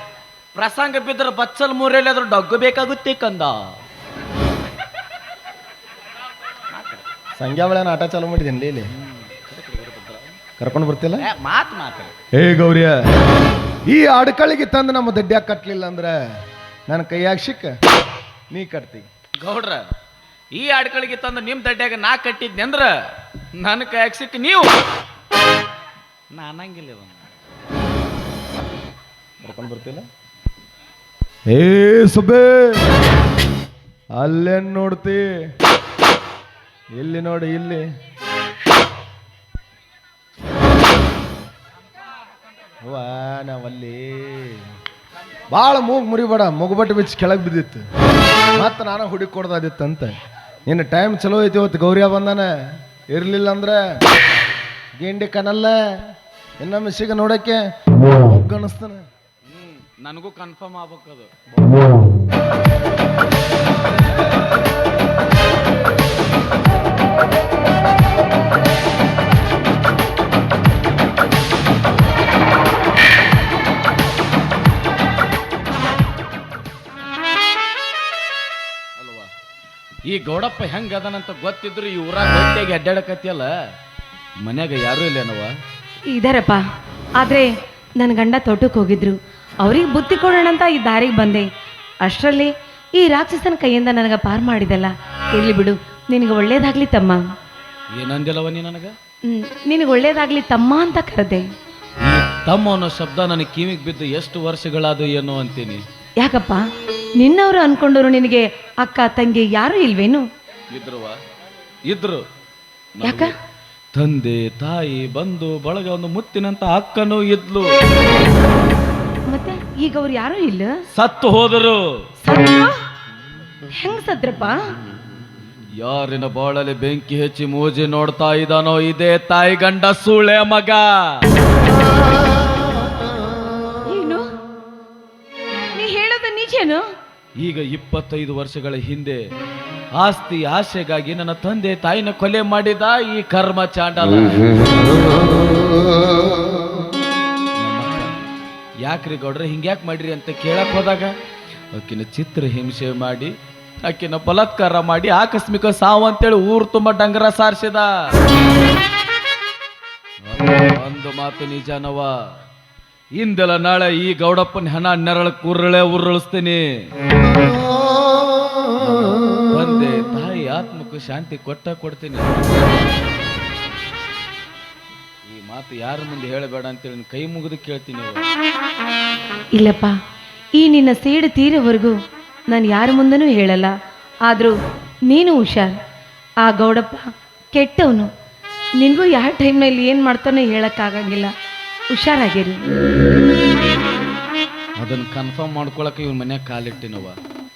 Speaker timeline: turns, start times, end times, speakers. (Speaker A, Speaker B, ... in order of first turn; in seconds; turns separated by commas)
Speaker A: 0.5-3.8, Speaker A: 6.7-7.0, Speaker B: 7.3-8.9, Speaker A: 8.9-10.4, Speaker B: 10.6-11.2, Speaker A: 11.2-12.1, Speaker B: 12.3-13.0, Speaker B: 13.8-16.2, Speaker B: 16.9-17.8, Speaker B: 18.5-19.1, Speaker A: 19.4-19.9, Speaker A: 20.5-22.9, Speaker A: 23.5-24.7, Speaker A: 26.3-27.2, Speaker B: 29.4-30.0, Speaker B: 31.5-32.9, Speaker B: 34.1-35.4, Speaker B: 36.9-37.8, Speaker B: 42.8-44.6, Speaker B: 45.5-47.9, Speaker B: 48.5-50.1, Speaker B: 50.7-52.5, Speaker B: 53.1-54.0, Speaker B: 55.0-57.6, Speaker B: 58.1-59.0, Speaker A: 59.5-61.3, Speaker A: 79.0-79.3, Speaker A: 80.1-83.5, Speaker A: 84.4-85.5, Speaker C: 86.1-86.6, Speaker C: 87.2-91.5, Speaker C: 92.0-97.2, Speaker A: 97.9-99.0, Speaker C: 99.2-101.5, Speaker A: 102.0-105.8, Speaker C: 106.2-106.6, Speaker C: 107.2-110.2, Speaker A: 110.7-111.2, Speaker A: 111.9-112.2, Speaker A: 113.0-113.3, Speaker C: 113.0-113.3, Speaker A: 113.9-117.7, Speaker C: 119.3-120.7, Speaker A: 120.9-122.1, Speaker C: 122.2-122.8, Speaker C: 123.7-124.6, Speaker A: 125.8-131.3, Speaker C: 133.8-134.3, Speaker C: 135.7-136.8, Speaker A: 137.4-139.3, Speaker A: 140.0-145.3, Speaker A: 147.6-148.2, Speaker A: 148.8-151.1, Speaker A: 151.7-158.1, Speaker A: 160.2-162.1, Speaker A: 163.2-166.9, Speaker A: 168.8-172.7, Speaker A: 175.3-178.3, Speaker C: 179.5-179.9, Speaker C: 180.6-181.9, Speaker C: 182.5-183.7, Speaker C: 184.3-184.5, Speaker C: 185.1-185.7, Speaker C: 186.4-188.1, Speaker C: 188.8-191.3, Speaker C: 191.9-192.6, Speaker A: 194.8-197.2